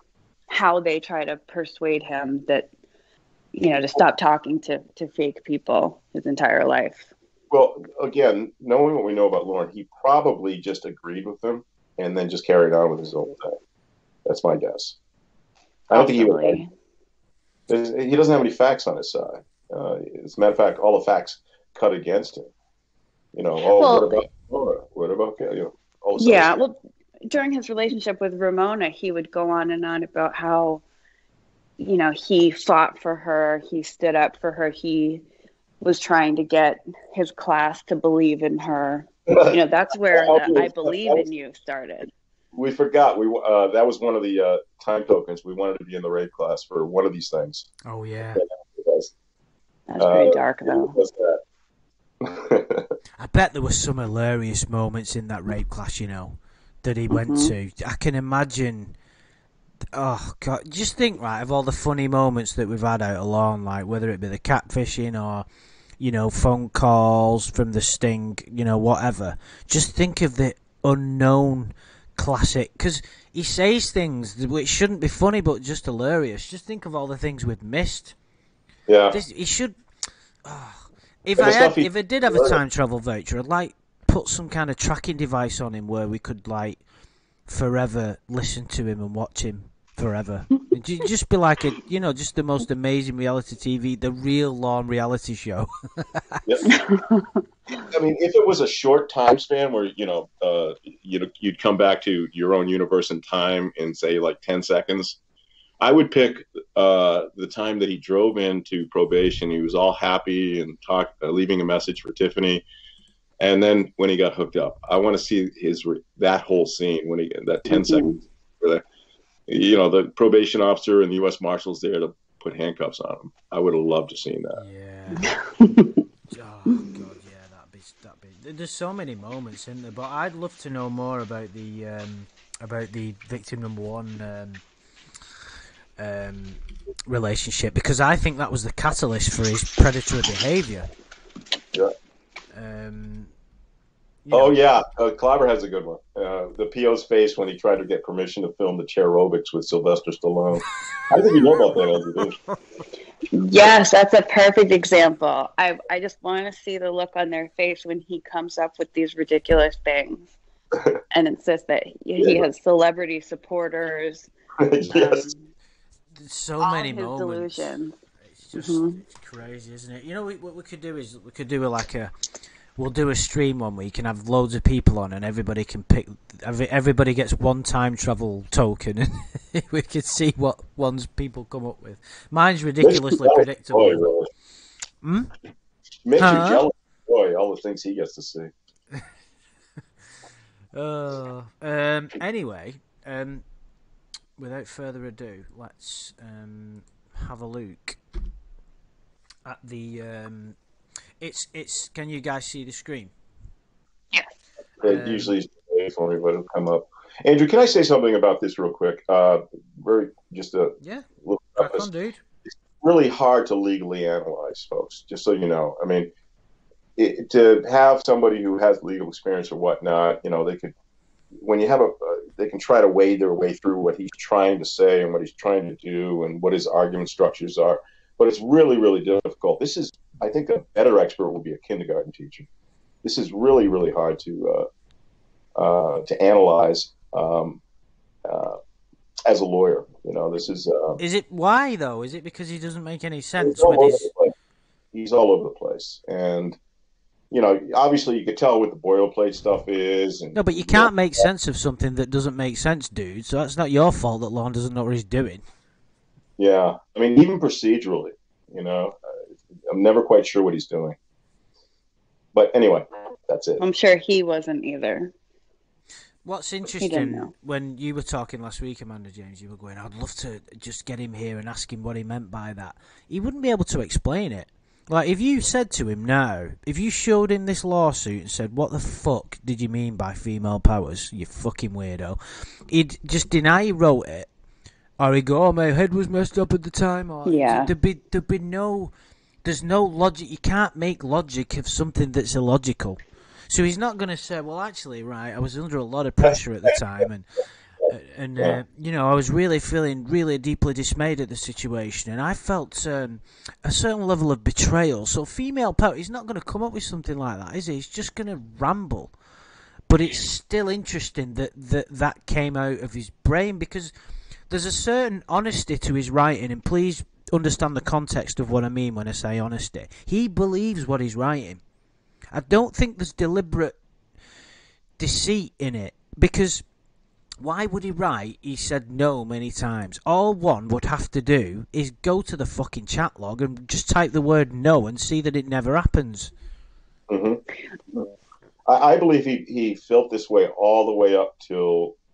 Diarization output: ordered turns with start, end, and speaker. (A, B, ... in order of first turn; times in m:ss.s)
0:00.5-0:02.7 A
0:03.5-0:07.1 A
0:07.5-0:13.6 B
0:14.3-0:15.0 B
0:15.9-0:16.6 B
0:15.9-0:16.7 A
0:17.7-0:22.5 B
0:23.3-0:26.5 B
0:23.7-0:24.2 A
0:26.2-0:26.8 A
0:27.3-0:30.8 A
0:31.8-0:35.2 A
0:35.8-0:42.1 A
0:39.3-0:39.6 B
0:40.1-0:41.2 B
0:42.5-0:47.7 B
0:47.8-0:48.4 C
0:48.4-0:49.1 B
0:49.9-0:51.0 A
0:50.0-0:51.4 B
0:52.2-0:52.9 B
0:53.2-0:59.0 C
0:57.1-0:57.5 A
0:59.9-1:05.5 C
1:06.0-1:18.2 C
1:18.9-1:19.2 B
1:19.1-1:19.8 C
1:20.4-1:26.8 C
1:21.4-1:22.6 B
1:27.5-1:36.4 C
1:36.4-1:36.7 B
1:36.7-1:37.9 A
1:37.9-1:45.2 B
1:45.8-1:52.6 B
1:53.4-1:58.8 B
1:57.7-1:58.2 A
1:59.5-2:04.6 B
2:04.6-2:05.3 C
2:05.2-2:05.9 A
2:06.3-2:14.6 C
2:16.0-2:20.9 C
2:22.5-2:23.3 C
2:24.2-2:24.6 C
2:24.3-2:32.4 B
2:33.3-2:40.4 A
2:41.1-2:44.3 A
2:42.2-2:42.5 B
2:44.6-2:45.3 B
2:44.9-2:45.4 A
2:46.2-2:47.8 C
2:46.6-2:48.0 A
2:48.3-2:52.1 C
2:48.6-2:49.0 A
2:52.8-3:04.1 C
3:02.8-3:04.3 B
3:05.0-3:05.3 C
3:06.0-3:08.5 B
3:06.2-3:06.6 C
3:10.7-3:13.4 C
3:14.4-3:18.0 C
3:19.4-3:20.6 C
3:21.2-3:23.1 C
3:24.8-3:31.9 B
3:24.8-3:25.3 C
3:30.8-3:32.2 C
3:32.4-3:36.1 B
3:37.0-3:40.7 B
3:41.4-3:52.5 B
3:53.0-3:54.7 B
3:55.6-3:57.6 B
3:58.3-3:58.6 B
3:59.3-4:01.0 B
4:01.0-4:04.1 C
4:03.4-4:04.3 B
4:04.9-4:06.6 B
4:07.3-4:10.9 B
4:10.3-4:15.4 C
4:16.4-4:21.0 B
4:22.3-4:23.6 B
4:23.6-4:25.1 A
4:26.2-4:42.2 C
4:26.8-4:27.3 A
4:42.7-4:44.3 C
4:45.0-4:48.9 C
4:47.3-4:47.7 A
4:49.4-4:57.3 C
4:57.9-5:09.1 C
5:09.9-5:13.9 C
5:14.5-5:21.6 C
5:22.3-5:23.8 C
5:25.0-5:26.6 C
5:27.4-5:36.3 C
5:37.1-5:37.4 B
5:38.7-5:42.0 B